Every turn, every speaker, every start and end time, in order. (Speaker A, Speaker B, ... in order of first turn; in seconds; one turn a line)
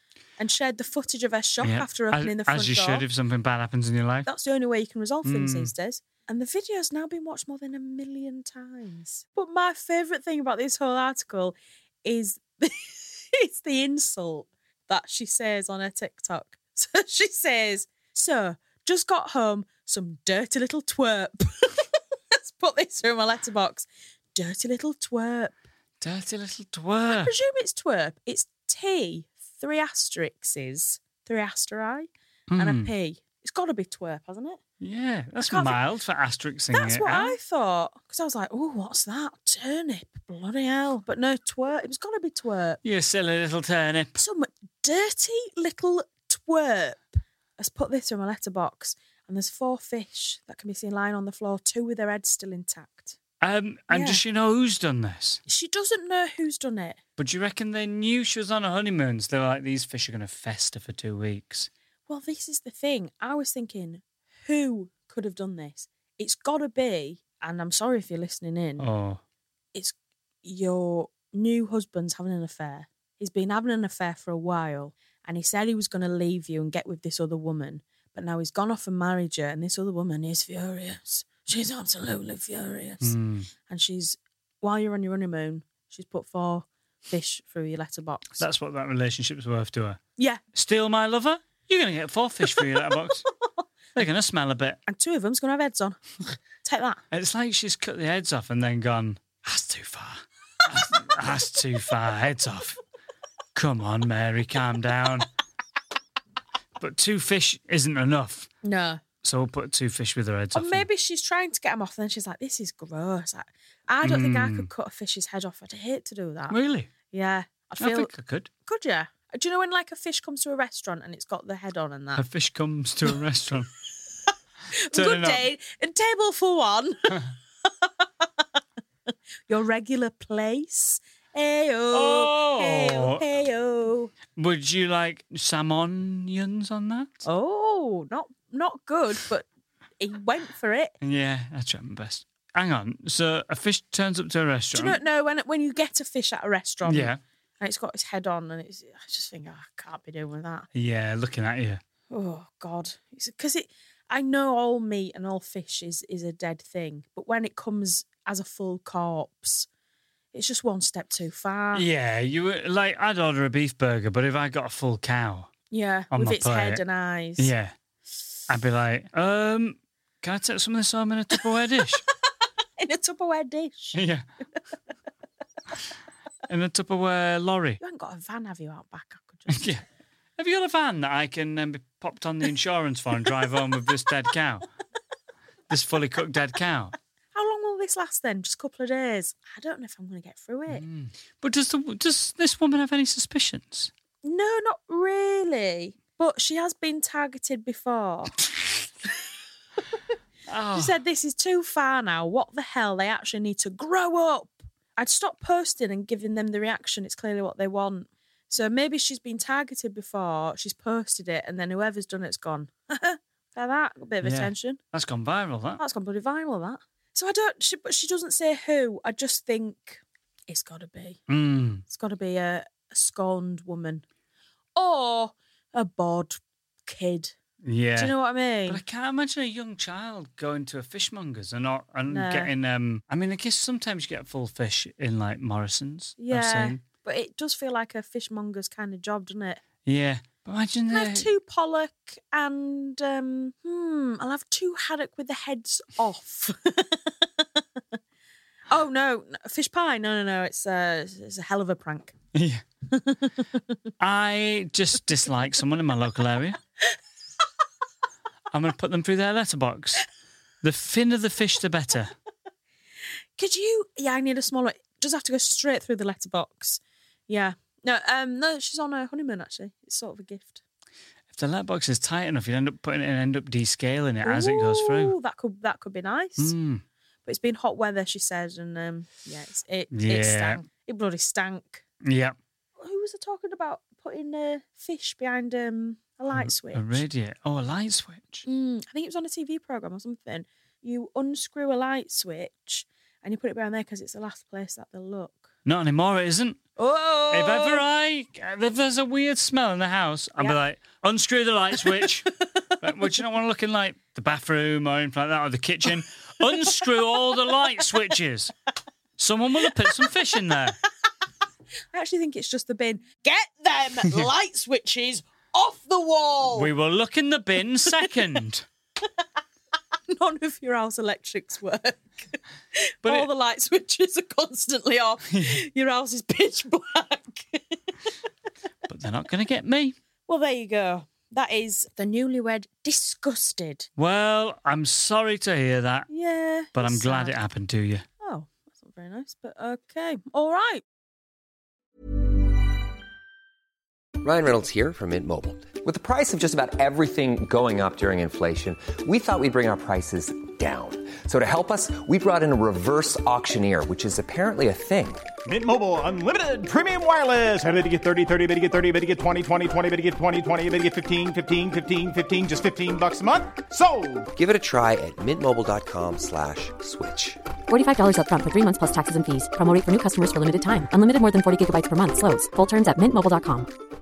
Speaker A: 0.4-3.0
Speaker B: 1.6-4.3
Speaker A: 4.3-25.6
Speaker B: 5.2-5.7
Speaker B: 26.0-27.3
Speaker A: 27.1-34.6
Speaker B: 32.5-32.9
Speaker B: 34.8-37.4
Speaker A: 35.4-35.8
Speaker A: 36.7-42.8
Speaker B: 42.8-44.2
Speaker A: 44.2-53.2
Speaker B: 53.4-55.4
Speaker A: 53.9-54.2
Speaker A: 55.5-57.0
Speaker B: 57.2-61.7
Speaker A: 62.1-68.9
Speaker B: 68.8-69.2
Speaker A: 69.7-83.1
Speaker B: 83.0-83.5
Speaker A: 83.7-88.4
Speaker B: 88.4-90.0
Speaker B: 90.5-93.2
Speaker B: 94.0-94.8
Speaker A: 94.9-97.0
Speaker B: 97.1-102.8
Speaker B: 103.5-105.3
Speaker B: 106.8-108.5
Speaker A: 108.6-109.0
Speaker B: 109.2-110.9
Speaker A: 110.5-116.6
Speaker B: 114.0-114.7
Speaker B: 116.5-116.9
Speaker A: 117.1-118.1
Speaker B: 117.8-118.5
Speaker A: 118.7-122.2
Speaker B: 122.2-123.7
Speaker A: 124.9-127.2
Speaker B: 124.9-125.4
Speaker A: 127.8-128.3
Speaker A: 129.5-134.1
Speaker B: 131.9-133.2
Speaker B: 134.4-137.2
Speaker A: 137.2-139.4
Speaker A: 140.0-140.9
Speaker B: 141.0-145.0
Speaker A: 144.7-150.7
Speaker B: 146.8-147.2
Speaker B: 150.8-151.8
Speaker A: 152.1-159.7
Speaker A: 160.3-161.9
Speaker B: 161.7-165.5
Speaker A: 165.7-167.5
Speaker B: 166.1-166.8
Speaker B: 167.4-167.7
Speaker B: 168.5-172.0
Speaker A: 172.8-174.0
Speaker B: 173.9-174.2
Speaker B: 176.5-177.8
Speaker A: 177.8-179.7
Speaker B: 179.5-179.8
Speaker B: 180.4-184.7
Speaker B: 185.7-186.9
Speaker A: 187.3-190.8
Speaker B: 190.7-193.9
Speaker A: 194.2-198.4
Speaker B: 200.5-200.9
Speaker A: 200.8-214.8
Speaker B: 214.2-215.8
Speaker A: 215.8-221.2
Speaker B: 221.3-221.8
Speaker A: 221.8-224.0
Speaker A: 224.8-227.3
Speaker B: 227.6-228.1
Speaker A: 228.0-228.8
Speaker B: 228.7-236.8
Speaker A: 232.1-232.5
Speaker A: 236.2-239.6
Speaker B: 239.8-241.3
Speaker A: 240.9-247.6
Speaker A: 248.7-252.2
Speaker B: 252.3-252.6
Speaker A: 252.9-253.8
Speaker B: 254.0-256.6
Speaker B: 258.5-260.1
Speaker B: 260.6-262.1
Speaker A: 263.4-270.6
Speaker B: 271.3-275.1
Speaker A: 274.2-276.5
Speaker B: 276.4-276.8
Speaker A: 277.2-281.8
Speaker B: 279.9-280.6
Speaker B: 282.0-282.4
Speaker A: 282.8-287.0
Speaker B: 286.3-288.4
Speaker A: 288.5-295.5
Speaker B: 295.6-296.6
Speaker A: 296.8-297.8
Speaker B: 297.3-302.3
Speaker B: 302.8-308.5
Speaker B: 309.2-310.8
Speaker A: 311.9-316.7
Speaker B: 316.5-318.7
Speaker A: 317.9-318.1
Speaker A: 320.1-327.8
Speaker B: 323.0-323.3
Speaker B: 325.3-325.6
Speaker B: 328.9-330.0
Speaker A: 330.3-333.9
Speaker B: 334.0-336.1
Speaker A: 336.1-337.4
Speaker B: 336.8-338.1
Speaker A: 338.2-340.8
Speaker C: 344.2-355.3
Speaker D: 355.5-364.3
Speaker C: 364.4-367.4
Speaker E: 367.7-373.7